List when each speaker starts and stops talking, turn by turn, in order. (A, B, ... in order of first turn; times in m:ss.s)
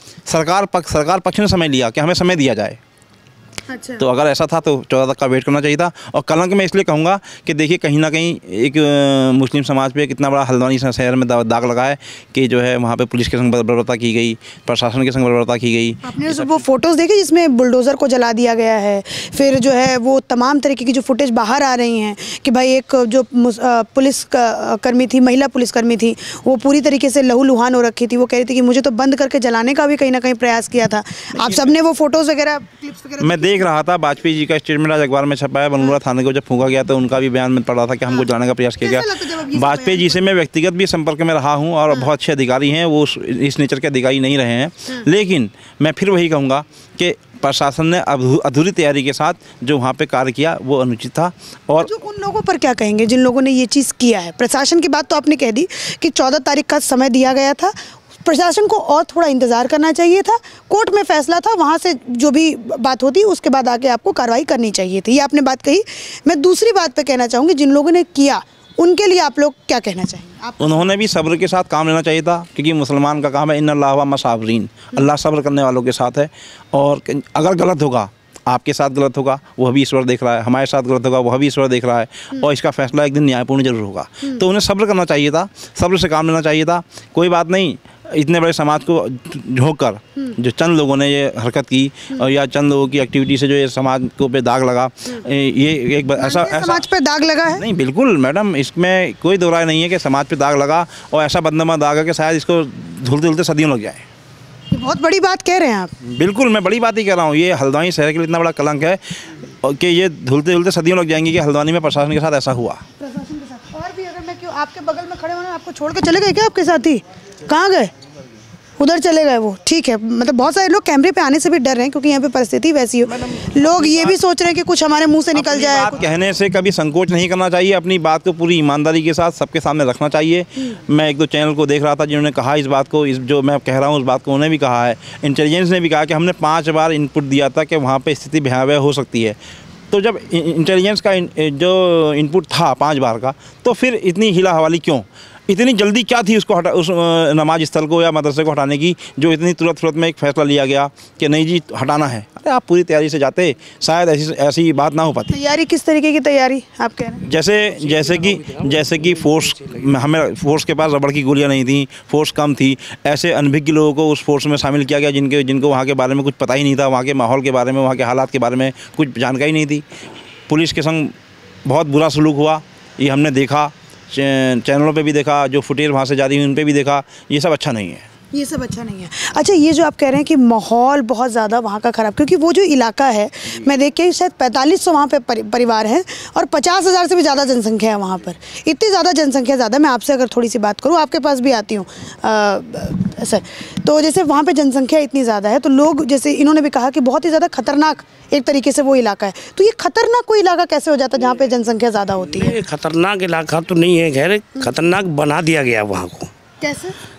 0:00.3-0:02.8 A
0:03.7-0:04.0 B
0:04.0-0:16.6 A
0:16.0-0:33.6 B
0:31.4-0:31.7 A
0:33.2-0:51.9 A
0:38.8-0:40.2 B
0:51.8-1:10.9 B
1:10.6-1:36.8 A
1:36.2-1:37.6 B
1:37.5-1:44.0 A
1:44.7-1:45.9 B
1:46.0-1:52.8 A
1:53.0-1:57.9 B
1:58.8-2:06.0 B
2:03.1-2:04.2 A
2:05.3-2:19.4 A
2:19.9-2:35.4 A
2:35.3-2:37.2 B
2:37.2-2:49.8 A
2:37.7-2:40.0 C
2:50.5-2:51.1 A
2:51.7-2:58.1 A
2:58.3-3:22.6 B
3:22.2-3:26.3 C
3:26.6-3:26.9 B